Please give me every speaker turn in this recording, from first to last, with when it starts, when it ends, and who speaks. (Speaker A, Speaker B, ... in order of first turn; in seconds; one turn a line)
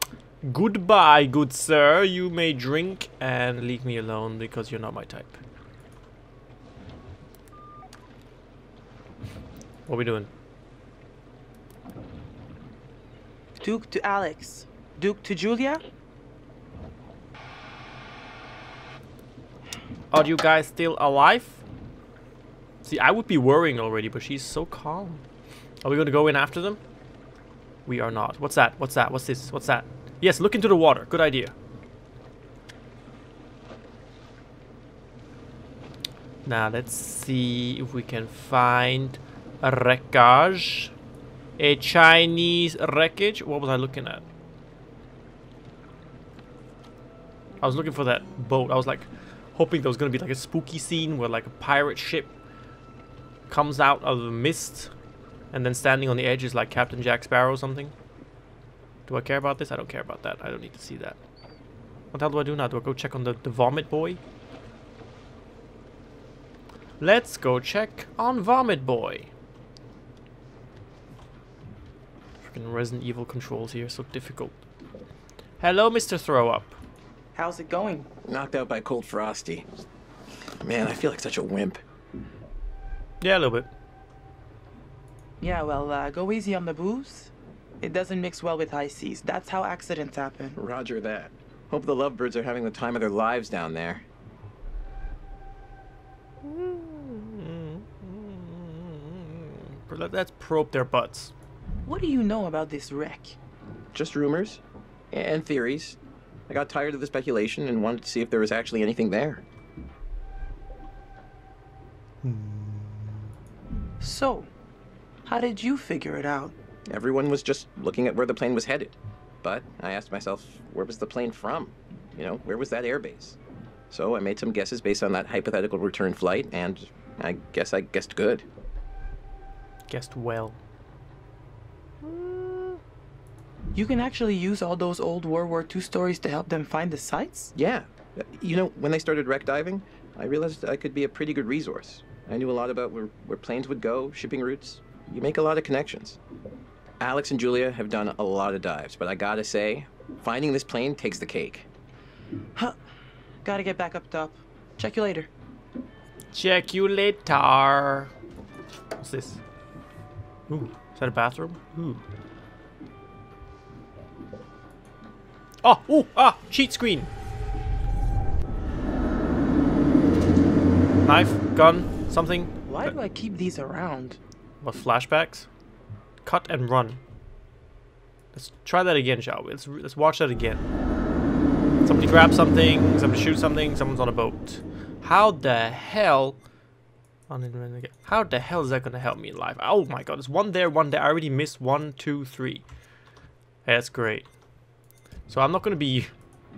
Speaker A: 0.4-5.4
Speaker A: 9.9-10.3
Speaker B: 13.6-15.8
Speaker A: 20.1-21.6
Speaker A: 22.8-25.2
Speaker A: 25.8-26.8
Speaker A: 27.9-31.5
Speaker A: 36.4-40.9
Speaker A: 41.6-44.2
Speaker A: 47.6-52.3
Speaker A: 53.5-54.9
Speaker A: 55.5-57.9
Speaker A: 59.1-61.2
Speaker A: 62.1-64.2
Speaker A: 67.0-69.3
Speaker A: 72.4-74.6
Speaker A: 75.6-76.8
Speaker B: 77.3-78.1
Speaker C: 78.3-79.7
Speaker C: 80.6-81.8
Speaker A: 83.2-83.7
Speaker B: 85.4-90.6
Speaker C: 90.5-94.0
Speaker A: 96.4-101.3
Speaker B: 101.8-103.4
Speaker C: 103.9-104.6
Speaker C: 105.1-106.0
Speaker C: 106.5-109.4
Speaker A: 112.2-113.1
Speaker B: 114.0-114.5
Speaker B: 115.3-116.5
Speaker C: 116.9-123.4
Speaker C: 123.9-128.5
Speaker A: 129.9-130.6
Speaker A: 132.0-132.8
Speaker B: 133.8-137.5
Speaker C: 137.5-146.2
Speaker C: 147.0-151.7
Speaker B: 153.4-155.3
Speaker A: 156.3-158.1
Speaker A: 159.0-159.4
Speaker A: 160.5-162.0
Speaker A: 165.6-167.1
Speaker A: 171.0-172.9
Speaker B: 172.7-174.2
Speaker A: 174.6-175.5
Speaker A: 176.2-177.0
Speaker A: 178.3-180.7
Speaker A: 181.8-186.4
Speaker A: 187.3-192.6
Speaker A: 193.7-194.3
Speaker A: 195.3-196.1